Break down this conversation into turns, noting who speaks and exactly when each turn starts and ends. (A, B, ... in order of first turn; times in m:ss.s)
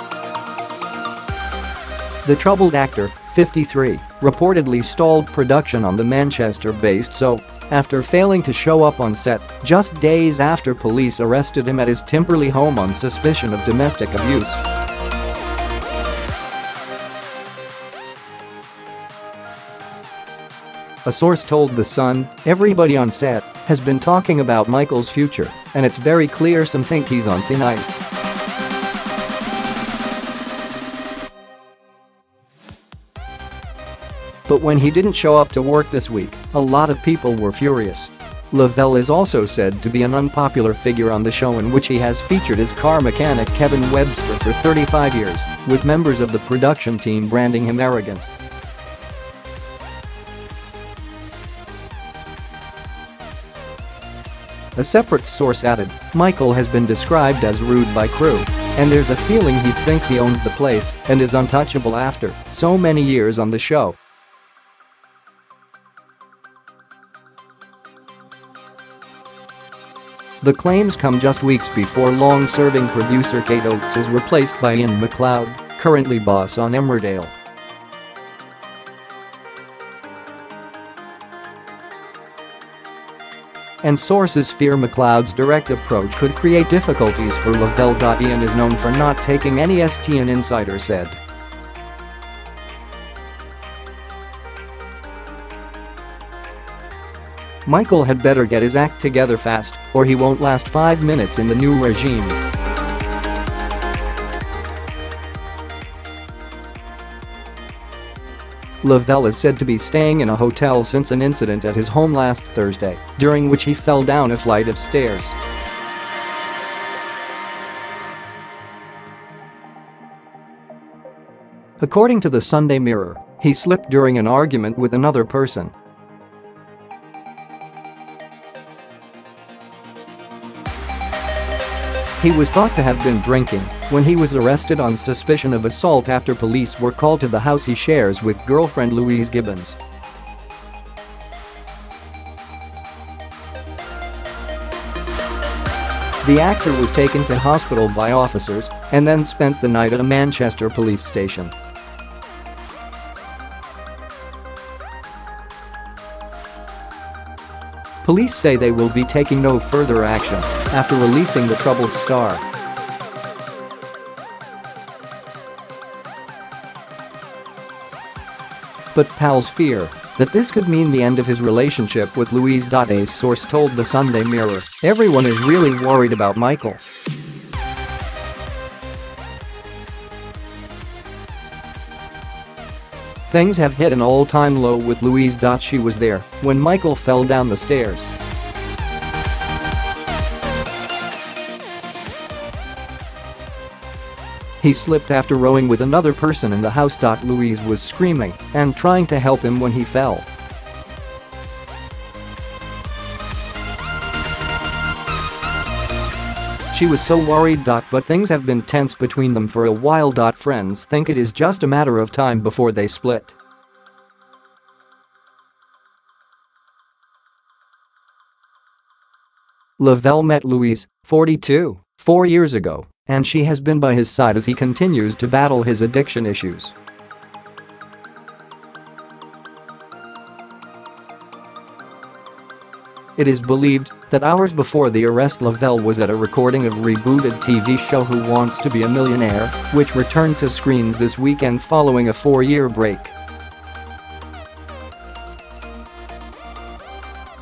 0:02.2-0:14.6 A
0:21.0-0:28.0 A
0:34.5-0:48.2 A
0:54.8-1:04.0 A
1:10.4-1:17.3 A
1:23.8-1:31.2 A
1:37.6-1:42.4 A
1:48.8-1:55.4 A
2:01.8-2:05.7 A
2:12.2-2:19.8 A
2:26.2-2:31.5 A
2:38.0-2:42.4 A
2:48.9-2:56.8 A
3:03.3-3:08.1 A
3:14.6-3:20.2 A
3:26.7-3:33.4 A
3:39.8-3:46.7 A
3:53.2-4:03.1 A